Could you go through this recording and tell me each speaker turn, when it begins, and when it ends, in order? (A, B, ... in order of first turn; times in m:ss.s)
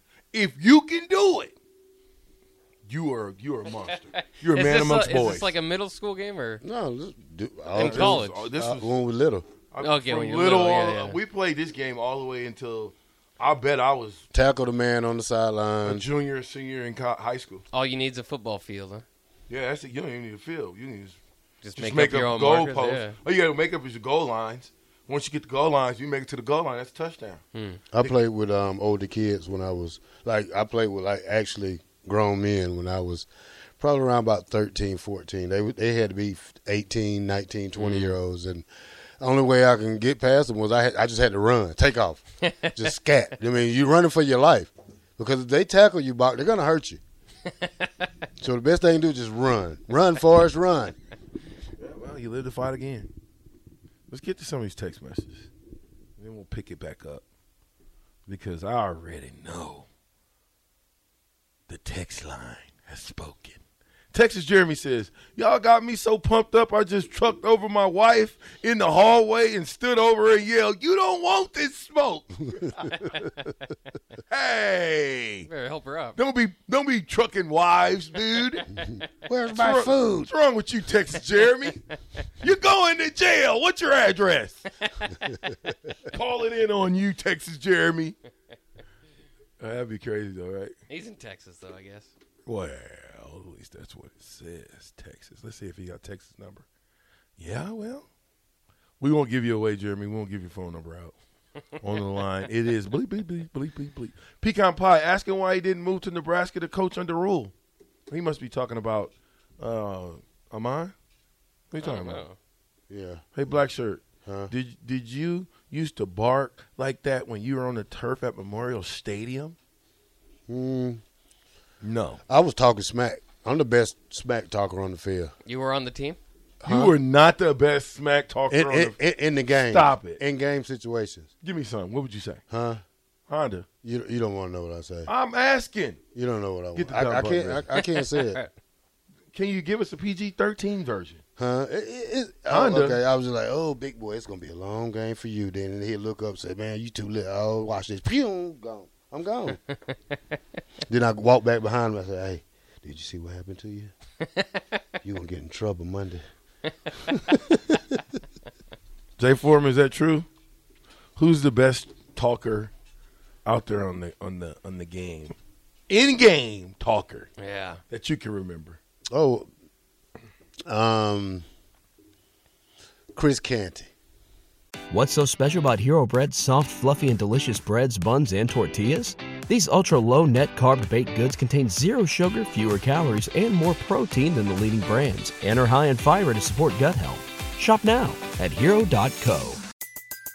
0:00.3-0:01.6 A
0:02.9-0:05.5 A
0:04.5-0:06.6 B
0:06.6-0:09.5 C
0:07.7-0:08.9 A
0:08.0-0:08.3 B
0:09.7-0:14.2 A
0:09.8-0:11.2 B
0:14.3-0:16.0 C
0:15.8-0:17.7 A
0:17.7-0:19.0 B
0:19.5-0:21.2 A
0:21.6-0:23.2 B
0:21.8-0:27.4 A
0:27.6-0:27.8 B
0:27.9-0:33.3 C
0:33.8-0:38.7 C
0:39.2-0:47.0 C
0:48.4-0:51.0 C
0:51.8-0:53.1 A
0:54.1-0:55.5 A
0:56.2-0:57.2 A
0:58.3-0:59.9 A
1:01.7-1:03.6 A
1:04.1-1:13.3 A
1:14.3-1:15.5 A
1:15.5-1:16.2 B
1:16.2-1:18.7 A
1:19.2-1:20.3 C
1:19.5-1:21.8 A
1:22.4-1:24.7 A
1:25.2-1:25.6 C
1:26.1-1:28.2 A
1:29.6-1:30.8 A
1:30.9-1:32.1 B
1:32.5-1:36.6 A
1:37.4-1:38.1 A
1:39.0-1:41.2 A
1:41.8-1:47.5 A
1:48.1-1:50.9 A
1:51.7-1:52.2 A
1:51.8-1:52.4 B
1:52.9-1:53.2 C
1:53.3-1:59.6 A
1:54.3-1:54.5 C
2:00.5-2:01.0 C
2:01.8-2:02.2 A
2:02.3-2:05.3 C
2:05.5-2:06.2 B
2:06.6-2:07.0 C
2:06.7-2:09.0 A
2:08.5-2:11.3 C
2:09.5-2:10.2 A
2:11.4-2:12.4 A
2:12.5-2:12.8 C
2:13.3-2:13.7 A
2:13.8-2:15.1 C
2:15.1-2:16.0 A
2:16.1-2:18.4 C
2:16.7-2:17.7 A
2:19.3-2:21.2 A
2:21.4-2:29.6 C
2:22.5-2:23.0 A
2:30.9-2:33.9 C
2:35.0-2:36.2 C
2:37.2-2:37.8 C
2:39.2-2:40.3 A
2:41.2-2:42.7 A
2:43.5-2:45.4 A
2:45.9-2:47.3 A
2:47.4-2:47.8 B
2:47.9-2:48.8 A
2:49.1-2:49.5 C
2:50.7-2:51.4 C
2:53.1-2:53.9 C
2:54.9-3:09.6 D